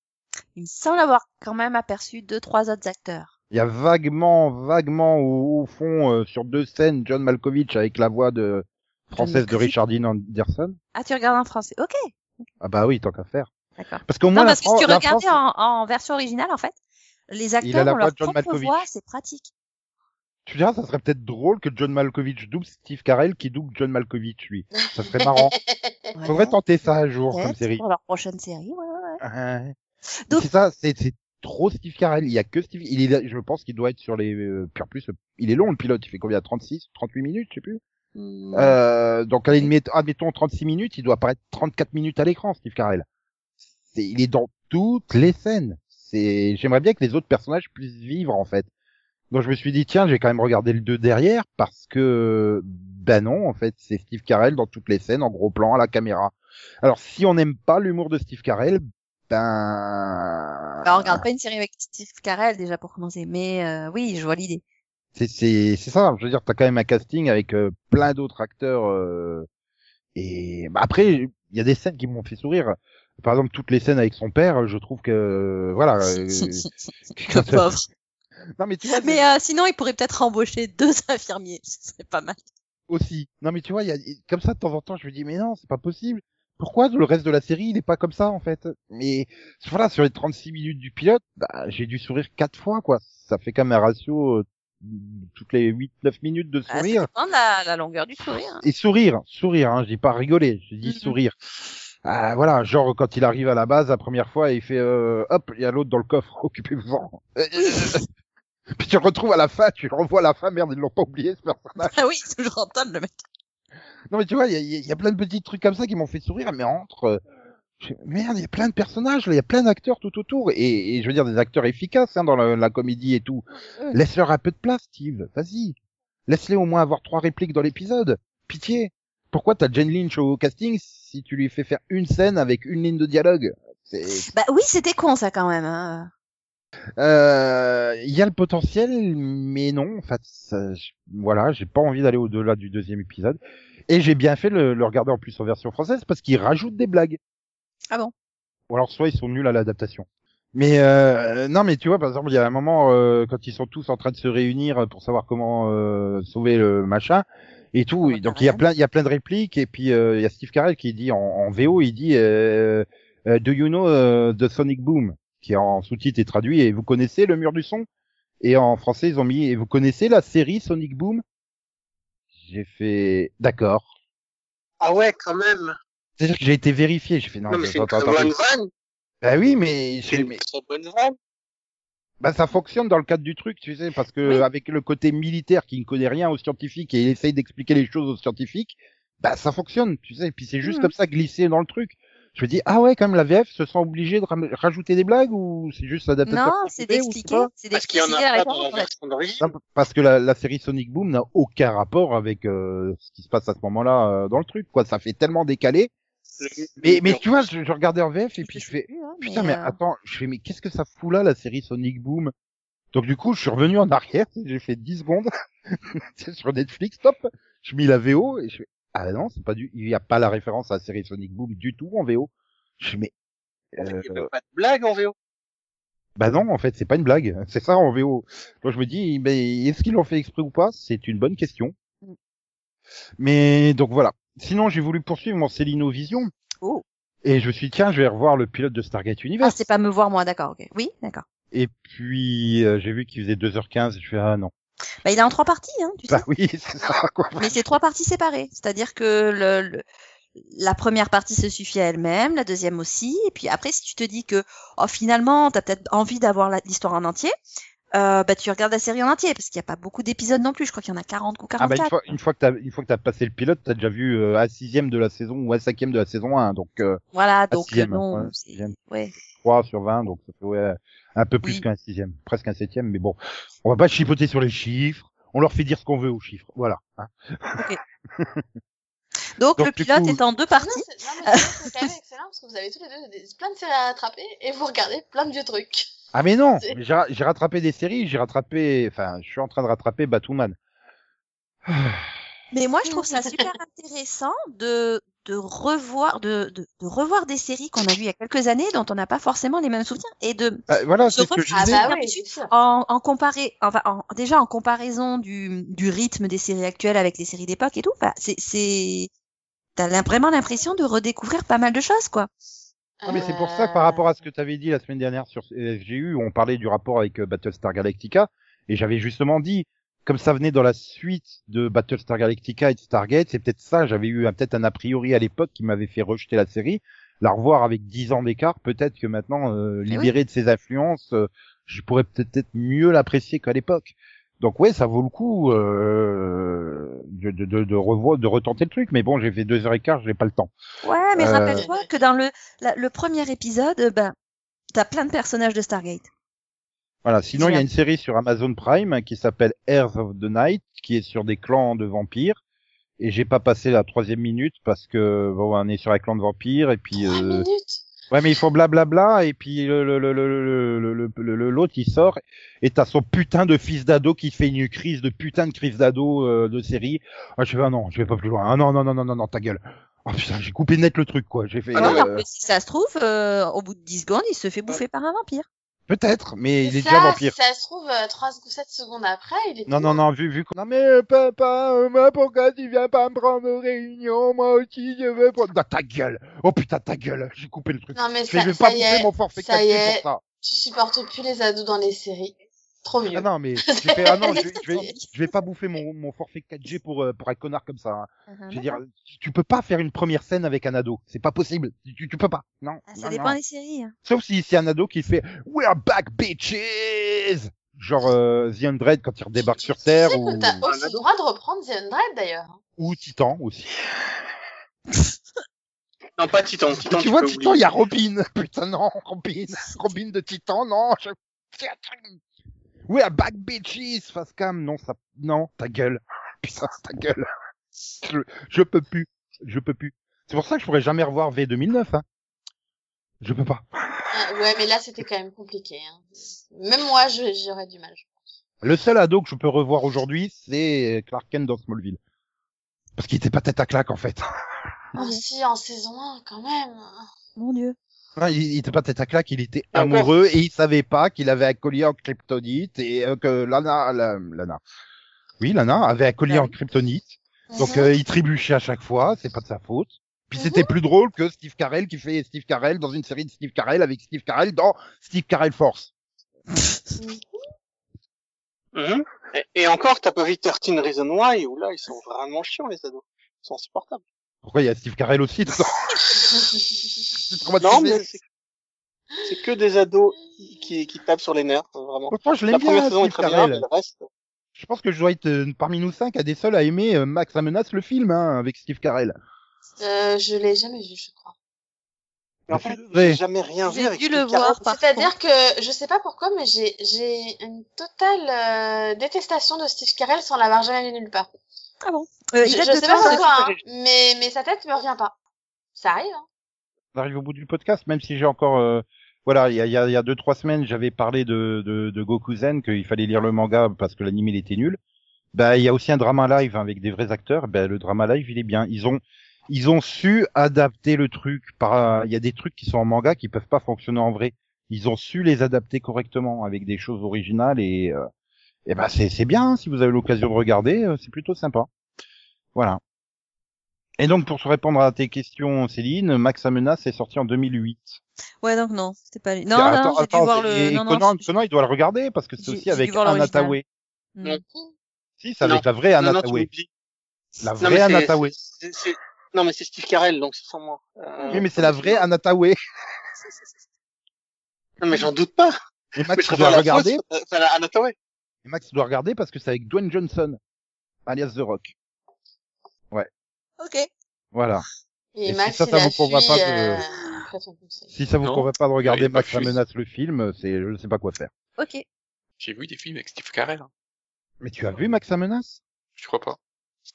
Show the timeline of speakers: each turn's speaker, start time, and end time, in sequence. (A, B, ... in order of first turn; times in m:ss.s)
0:00.6-0:03.3 A
0:03.5-0:10.8 B
0:09.2-0:09.7 A
0:10.9-0:12.4 A
0:12.6-0:13.5 B
0:13.8-0:16.7 A
0:14.1-0:15.4 B
0:17.3-0:19.5 A
0:17.6-0:18.8 B
0:20.4-0:25.5 B
0:24.9-0:25.9 C
0:26.1-0:26.6 A
0:26.2-0:27.8 B
0:27.3-0:29.2 A
0:29.2-0:29.7 B
0:30.3-0:37.8 B
0:38.1-0:38.8 A
0:38.5-0:43.0 B
0:43.9-0:48.7 B
0:49.3-1:01.2 B
1:00.8-1:04.6 A
1:05.2-1:09.5 B
1:10.2-1:17.7 B
1:16.1-1:16.7 A
1:17.3-1:17.8 A
1:18.6-1:19.3 B
1:18.9-1:22.4 A
1:22.9-1:37.1 B
1:36.7-1:38.6 A
1:38.2-1:41.3 B
1:40.8-1:41.2 A
1:42.0-1:48.0 B
1:47.6-1:48.0 A
1:48.7-1:51.9 B
1:51.8-1:53.2 A
1:54.1-1:57.2 B
1:57.8-2:05.8 B
2:06.3-2:14.3 B
2:14.3-2:16.1 A
2:17.0-2:27.2 B
2:28.7-2:47.8 B
2:38.0-2:38.6 A
2:48.4-2:51.2 B
2:52.4-2:53.9 B
2:54.8-2:55.7 D
2:56.2-2:58.3 B
2:57.5-2:58.7 D
2:59.2-3:00.4 B
3:00.1-3:01.2 D
3:02.2-3:17.5 B
3:10.6-3:10.9 A
3:16.2-3:18.9 A
3:17.7-3:19.5 D
3:19.4-3:25.9 B
3:26.4-3:27.3 D
3:26.8-3:32.3 B
3:28.4-3:29.8 A
3:32.9-3:43.1 B
3:43.7-3:44.3 B
3:43.8-3:45.1 D
3:46.2-3:51.7 B
3:53.2-3:56.3 B
3:57.2-3:59.6 B
3:59.4-4:01.2 A
4:01.5-4:04.5 B
4:05.0-4:06.2 A
4:06.1-4:07.6 B
4:07.4-4:09.8 A
4:10.5-4:17.3 A
4:17.9-4:22.1 A
4:21.6-4:28.7 B
4:27.1-4:29.1 A
4:29.4-4:38.4 B
4:39.4-4:41.9 A
4:39.6-4:40.2 B
4:40.5-4:45.9 C
4:46.1-4:50.6 B
4:51.7-4:52.1 B
4:52.5-5:09.1 A
4:52.9-4:53.4 C
5:00.7-5:01.9 B
5:01.5-5:02.5 C
5:09.8-5:12.3 A
5:13.0-5:14.0 C
5:13.1-5:40.5 B
5:40.8-5:44.1 A
5:41.2-5:41.6 B
5:41.5-5:41.8 C
5:44.7-5:46.1 A
5:47.0-5:52.4 B
5:47.4-5:47.6 A
5:53.0-5:57.4 B
5:57.0-5:57.8 C
5:58.1-6:12.2 B
6:11.7-6:12.0 D
6:11.7-6:15.4 A
6:15.9-6:17.3 B
6:16.6-6:20.0 C
6:19.7-6:30.2 B
6:27.9-6:34.8 C
6:33.1-6:43.4 B
6:34.2-6:35.1 A
6:38.3-6:38.8 A
6:42.9-6:43.9 A
6:44.0-6:50.6 B
6:49.8-6:52.6 C
6:50.6-6:51.0 D
6:52.8-6:53.7 B
6:56.2-6:57.6 D
6:56.8-7:02.2 B
7:02.9-7:07.2 B
7:08.0-7:12.0 B
7:13.2-7:14.2 B
7:14.1-7:18.1 C
7:18.6-7:22.0 B
7:23.0-7:24.2 B
7:25.0-7:27.0 C
7:25.0-7:25.2 A
7:27.4-7:27.8 A
7:28.2-7:34.6 B
7:29.7-7:30.1 D
7:35.4-7:45.9 B
7:36.3-7:36.5 A
7:37.5-7:37.9 C
7:40.4-7:40.7 C
7:47.0-7:47.2 C
7:48.7-7:54.0 D
7:54.4-7:56.2 B
7:56.2-7:56.8 C
7:57.2-7:58.0 B
7:57.6-7:58.2 D
7:59.2-8:04.1 D
8:02.1-8:03.6 B
8:04.6-8:09.1 B
8:09.8-8:11.3 C
8:12.5-8:14.6 D
8:12.5-8:13.2 B
8:13.6-8:15.1 A
8:14.6-8:21.3 C
8:21.8-8:23.2 A
8:22.4-8:25.1 C
8:23.0-8:23.6 D
8:25.8-8:26.2 C
8:26.9-8:34.8 B
8:35.3-8:48.0 B
8:48.6-8:51.7 B
8:52.5-8:52.8 B
8:54.0-8:58.0 B
8:58.4-9:01.3 A
8:59.5-9:03.6 B
9:02.4-9:03.6 A
9:04.2-9:04.4 A
9:05.2-9:06.5 B
9:05.4-9:06.7 D
9:07.4-9:08.3 B
9:07.6-9:12.0 D
9:11.3-9:12.5 B
9:14.8-9:17.9 D
9:16.0-9:17.0 B
9:18.4-9:20.4 B
9:21.0-9:21.7 B
9:23.6-9:23.9 A
9:24.3-9:24.6 B
9:25.2-9:27.9 C
9:25.2-9:26.8 B
9:26.9-9:27.2 A
9:27.9-9:31.3 B
9:28.2-9:29.6 E
9:31.6-9:31.8 A
9:32.4-9:33.7 E
9:34.4-9:35.6 B
9:36.0-9:36.4 E